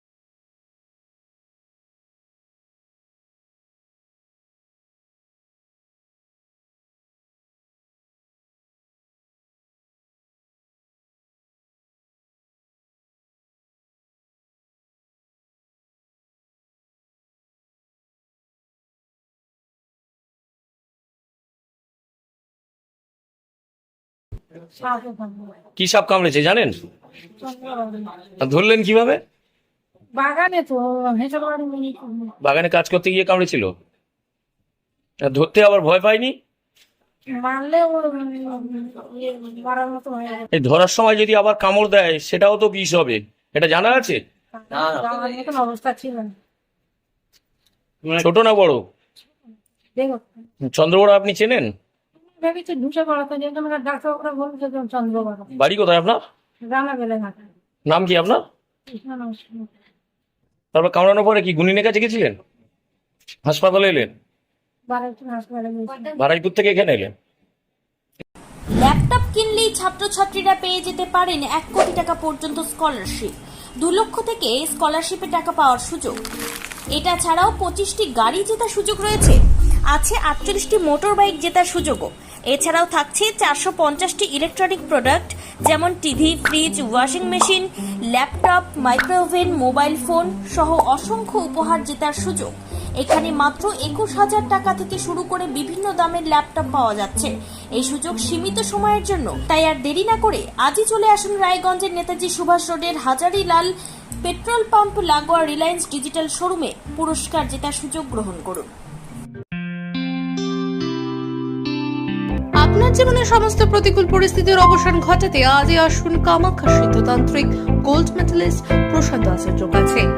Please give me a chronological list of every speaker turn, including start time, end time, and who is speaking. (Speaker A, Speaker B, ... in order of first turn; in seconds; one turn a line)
Speaker A: 24.8-25.6
Speaker B: 25.8-26.8
Speaker A: 27.4-28.2
Speaker B: 28.3-29.2
Speaker A: 30.1-32.3
Speaker B: 32.4-33.7
Speaker B: 35.2-36.4
Speaker A: 37.3-40.5
Speaker B: 40.5-44.2
Speaker A: 44.6-46.3
Speaker B: 48.1-48.9
Speaker A: 50.0-50.2
Speaker B: 50.6-51.7
Speaker A: 52.4-55.5
Speaker B: 55.6-56.2
Speaker A: 56.6-57.5
Speaker B: 57.9-58.4
Speaker A: 58.9-59.7
Speaker B: 60.7-62.4
Speaker B: 63.4-64.1
Speaker A: 64.9-66.2
Speaker B: 66.2-67.1
Speaker C: 68.8-76.2
Speaker C: 76.9-79.4
Speaker C: 79.9-103.7
Speaker C: 104.2-108.7
Speaker D: 112.6-120.0